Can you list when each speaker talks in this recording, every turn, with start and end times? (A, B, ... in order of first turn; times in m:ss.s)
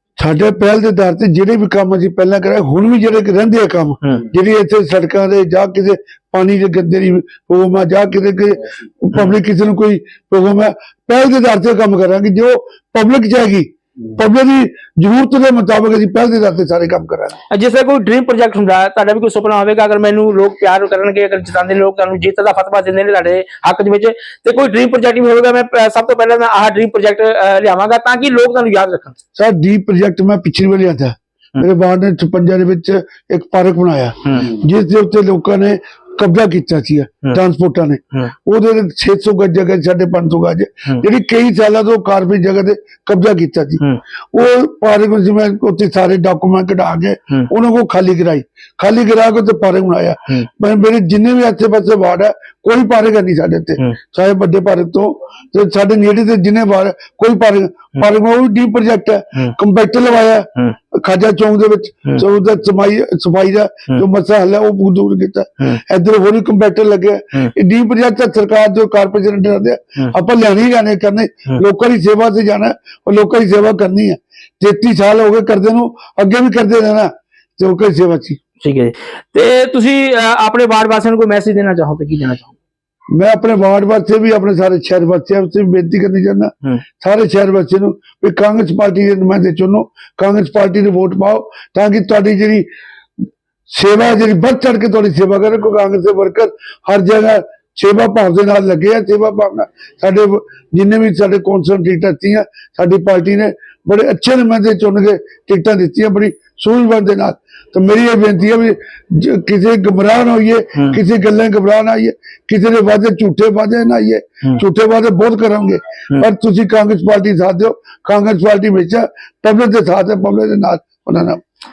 0:00.2-0:17.4 A
0:17.5-0:29.2 B
0:29.4-0:43.8 A
0:34.2-0:34.5 B
0:44.3-1:18.4 A
1:18.6-1:22.5 B
1:23.1-1:32.6 A
1:33.7-2:01.4 A